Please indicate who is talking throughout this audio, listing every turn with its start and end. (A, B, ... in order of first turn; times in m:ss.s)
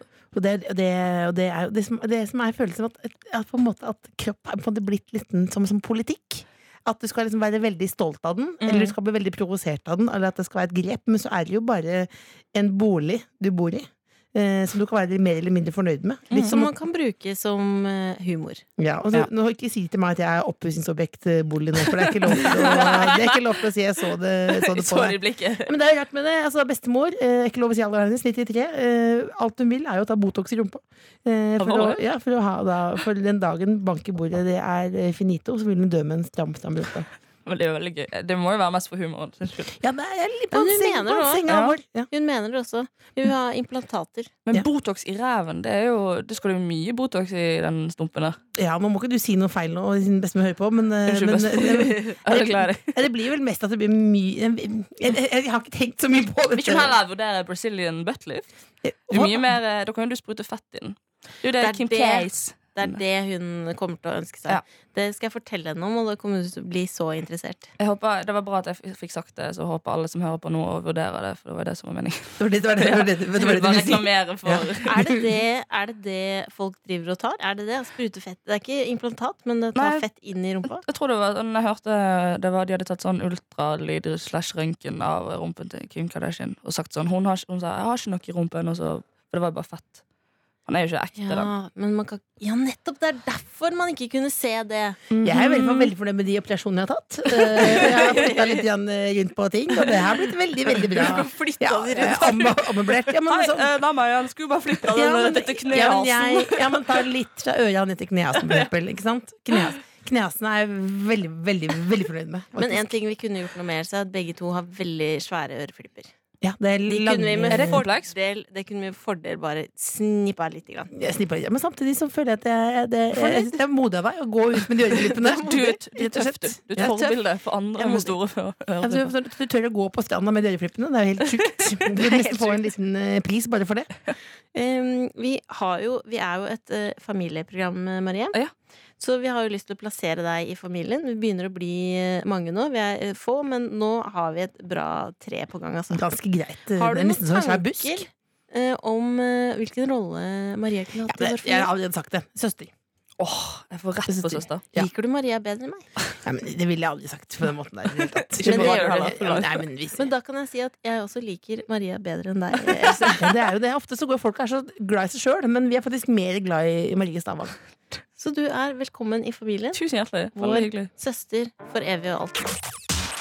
0:00.3-0:16.7 A
0:08.6-0:08.9 B
0:16.3-0:18.6 B
0:18.8-0:37.1 A
0:22.2-0:23.6 C
0:24.5-0:25.7 C
0:31.6-0:32.0 C
0:37.4-0:39.7 C
0:39.7-0:42.1 A
0:40.5-0:44.3 B
0:44.4-0:48.4 C
0:48.6-0:57.0 A
0:51.1-0:53.0 C
0:56.6-0:58.5 C
0:58.8-0:59.6 A
0:59.1-1:03.0 C
1:01.6-1:07.7 B
1:07.8-1:15.1 C
1:12.4-1:15.1 A
1:14.9-1:20.8 B
1:19.8-1:20.0 C
1:20.6-1:30.0 C
1:30.6-1:31.5 C
1:31.2-1:35.1 B
1:35.1-1:35.9 C
1:35.2-1:43.7 A
1:37.3-1:38.5 B
1:37.4-1:38.6 C
1:40.9-1:42.7 B
1:43.3-1:47.0 C
1:44.8-1:52.9 A
1:48.3-1:48.7 C
1:52.6-1:56.1 B
1:56.4-1:57.8 A
1:56.9-2:00.9 B
1:57.5-1:58.1 C
2:00.9-2:07.0 A
2:05.1-2:09.1 C
2:06.8-2:07.2 B
2:07.8-2:08.1 A
2:08.8-2:13.9 A
2:12.1-2:12.5 B
2:14.5-2:18.4 B
2:19.0-2:26.0 B
2:25.9-2:28.1 A
2:26.8-2:31.7 B
2:31.1-2:32.7 A
2:33.2-2:34.6 C
2:34.1-2:34.9 A
2:34.7-2:35.9 B
2:36.2-2:40.1 A
2:38.3-2:39.6 C
2:38.4-2:39.3 B
2:40.0-2:43.3 B
2:42.8-2:43.1 C
2:43.2-2:47.6 A
2:48.2-2:49.8 B
2:49.7-2:50.9 C
2:50.3-2:52.5 B